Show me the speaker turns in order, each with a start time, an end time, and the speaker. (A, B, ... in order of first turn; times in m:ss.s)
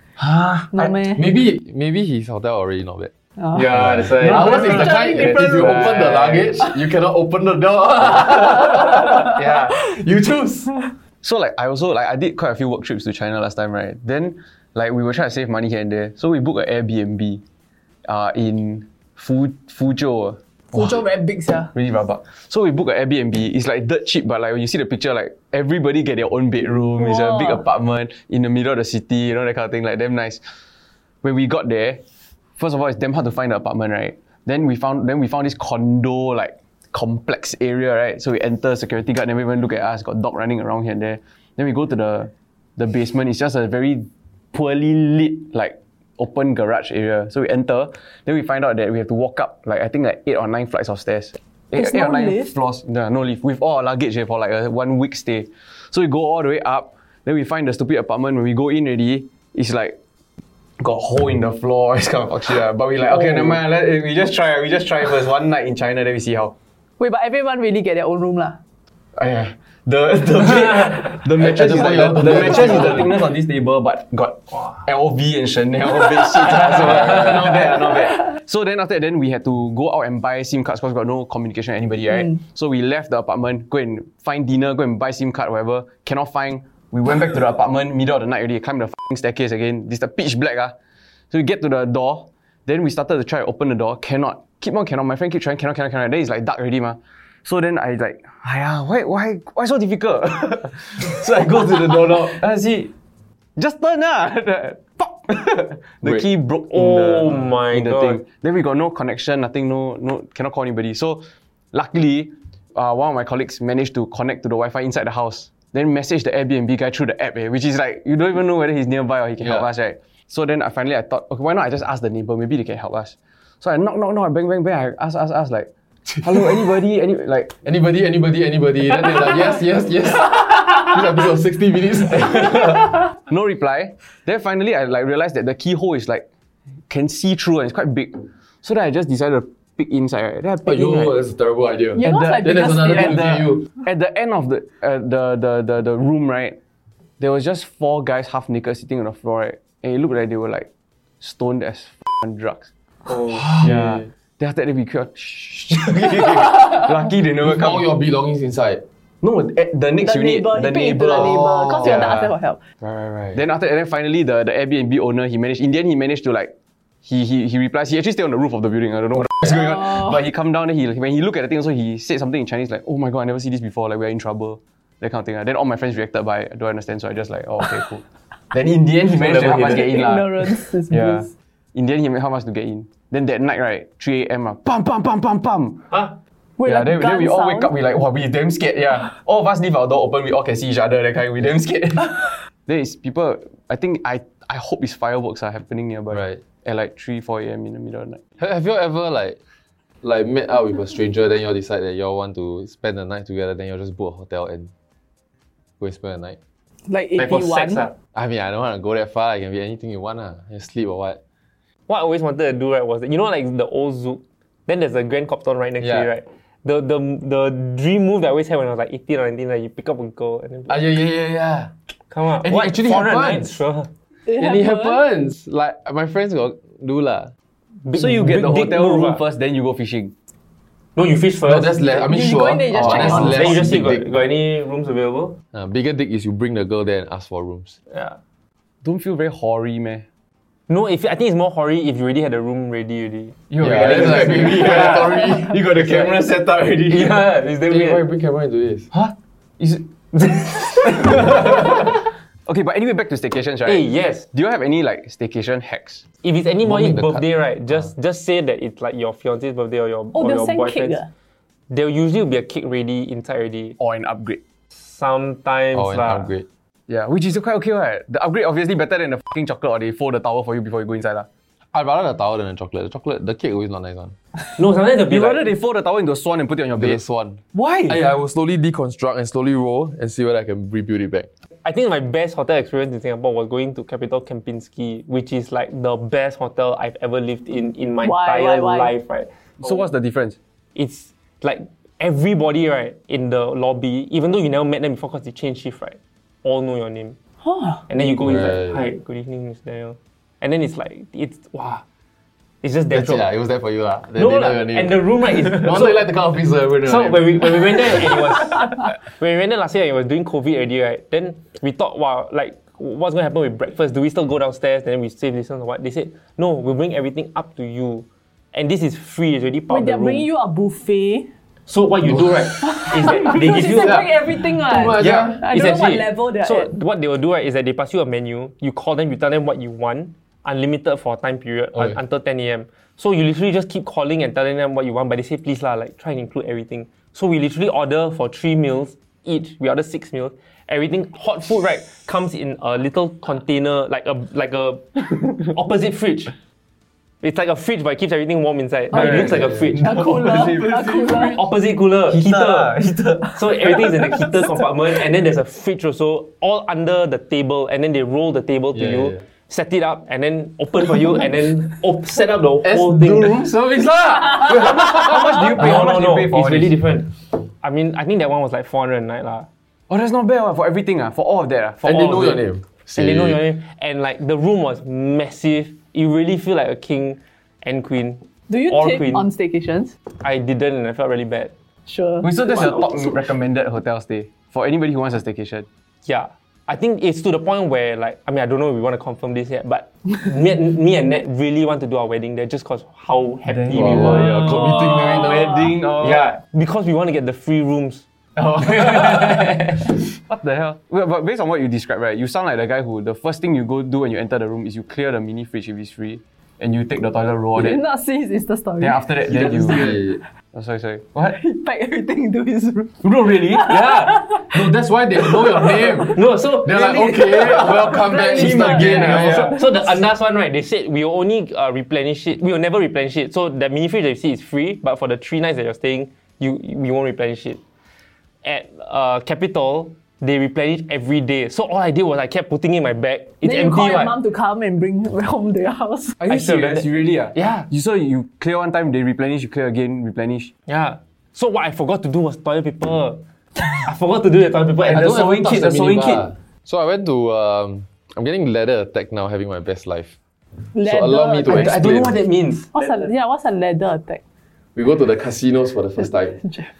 0:00.2-0:00.9 A
0:00.7-0:01.3 B
0:01.1-0:03.1 C
0:03.4-0:03.7 B
0:03.5-0:06.6 D
0:03.7-0:10.8 C
0:04.2-0:06.0 B
0:09.2-0:09.8 D
0:11.2-0:17.4 A
0:18.0-0:21.0 A
0:20.7-0:21.7 B
0:21.7-0:30.4 A
0:27.0-0:27.6 B
0:31.2-0:32.0 A
0:32.6-1:00.0 A
0:51.7-0:52.5 B
1:00.8-1:06.5 A
1:03.1-1:03.5 D
1:07.0-1:08.6 B
1:09.1-1:30.7 A
1:11.4-1:13.2 C
1:16.5-1:17.7 C
1:31.3-1:42.9 A
1:43.6-2:05.7 A
1:46.0-1:46.3 C
1:46.7-1:48.2 D
1:59.4-1:59.7 C
2:06.1-2:06.5 C
2:06.2-2:07.5 A
2:07.6-2:13.1 C
2:13.3-2:16.2 A
2:16.9-2:21.2 A
2:20.6-2:23.7 C
2:21.9-2:23.3 B
2:22.0-2:26.6 A
2:27.2-2:30.7 A
2:31.2-2:32.7 A
2:33.1-2:33.6 D
2:33.4-2:34.0 C
2:33.6-2:37.9 A
2:37.4-2:38.8 C
2:39.2-2:42.1 A
2:40.0-2:42.6 B
2:41.1-2:43.4 C
2:43.3-2:46.5 A
2:47.0-3:05.8 A
2:59.1-3:00.0 D
2:59.6-3:01.3 B
3:05.9-3:06.1 D
3:06.6-3:07.7 B
3:06.6-3:18.2 A
3:16.1-3:16.4 C
3:18.4-3:19.4 C
3:20.0-3:24.7 C
3:25.8-3:26.4 C
3:26.9-3:27.8 B
3:27.2-3:27.9 D
3:28.1-3:31.2 C
3:31.9-3:40.8 D
3:35.8-3:36.1 C
3:40.7-3:41.7 C
3:42.1-3:43.9 D
3:42.4-3:43.6 C
3:44.2-3:45.0 B
3:44.3-3:47.3 C
3:47.8-3:49.2 D
3:47.9-3:50.1 A
3:50.9-3:51.8 D
3:51.4-3:54.1 C
3:51.9-3:53.4 B
3:52.7-3:53.5 A
3:52.8-3:55.4 D
3:55.5-3:57.8 C
3:57.9-3:58.2 D
3:58.8-4:00.0 A
4:00.7-4:05.2 D
4:03.5-4:07.2 A
4:03.6-4:06.1 C
4:05.7-4:06.1 D
4:06.8-4:08.0 D
4:07.6-4:08.9 C
4:08.9-4:09.8 A
4:10.1-4:11.9 D
4:10.9-4:11.9 A
4:12.4-4:16.0 A
4:13.6-4:14.2 D
4:16.2-4:21.0 D
4:16.6-4:17.8 C
4:20.1-4:21.1 B
4:21.7-4:23.8 D
4:23.8-4:24.4 A
4:24.7-4:26.3 D
4:25.7-4:26.4 C
4:26.9-4:31.3 A
4:31.7-4:34.1 C
4:34.6-4:35.5 D
4:35.1-4:37.0 A
4:36.8-4:41.3 C
4:37.5-4:38.0 A
4:41.6-4:49.9 D
4:48.0-4:48.9 B
4:49.6-4:50.4 A
4:50.7-4:57.2 D
4:57.4-4:57.8 B
4:57.9-5:01.8 D
4:58.2-4:58.8 C
5:02.6-5:03.3 D
5:02.9-5:08.0 C
5:04.1-5:06.0 D
5:06.8-5:20.2 D
5:19.7-5:21.3 B
5:21.7-5:24.0 D
5:22.0-5:23.1 C
5:22.6-5:26.7 B
5:23.8-5:25.5 C
5:25.1-5:46.3 D
5:47.2-5:49.9 D
5:48.9-5:51.4 A
5:49.2-5:49.7 C
5:49.8-5:51.4 B
5:51.3-5:52.7 D
5:52.1-5:54.0 A
5:53.3-6:03.4 D
5:58.7-5:59.2 C
6:02.6-6:05.6 C
6:04.5-6:06.8 A
6:04.9-6:09.5 D
6:09.9-6:12.4 A
6:11.8-6:12.4 D
6:11.8-6:13.4 C
6:13.0-6:19.3 D
6:18.5-6:19.9 B
6:20.2-6:21.5 D
6:21.8-6:23.3 B
6:22.2-6:25.6 A
6:26.0-6:34.8 D
6:33.4-6:36.3 A
6:33.7-6:35.7 C
6:36.0-6:40.0 D
6:38.4-6:39.4 A
6:40.2-6:47.8 A
6:47.5-6:50.0 B
6:48.8-6:50.0 A
6:49.3-6:50.2 C
6:50.5-6:51.4 A
6:51.3-6:53.0 B
6:53.0-6:53.7 A
6:53.5-6:54.6 B
6:53.7-6:59.5 C
6:53.8-6:54.1 D
6:55.2-6:55.8 B
6:56.1-7:07.6 D
6:58.0-6:59.0 B
6:58.3-6:59.5 A
7:08.4-7:14.1 D
7:13.4-7:16.2 B
7:16.2-7:20.5 A
7:16.3-7:17.7 D
7:20.7-7:23.2 D
7:23.8-7:25.8 D
7:24.8-7:26.2 A
7:24.9-7:30.1 C
7:30.7-7:31.7 B
7:30.8-7:32.2 C
7:31.5-7:33.1 D
7:32.7-7:34.2 B
7:34.7-7:36.4 C
7:36.0-7:36.7 B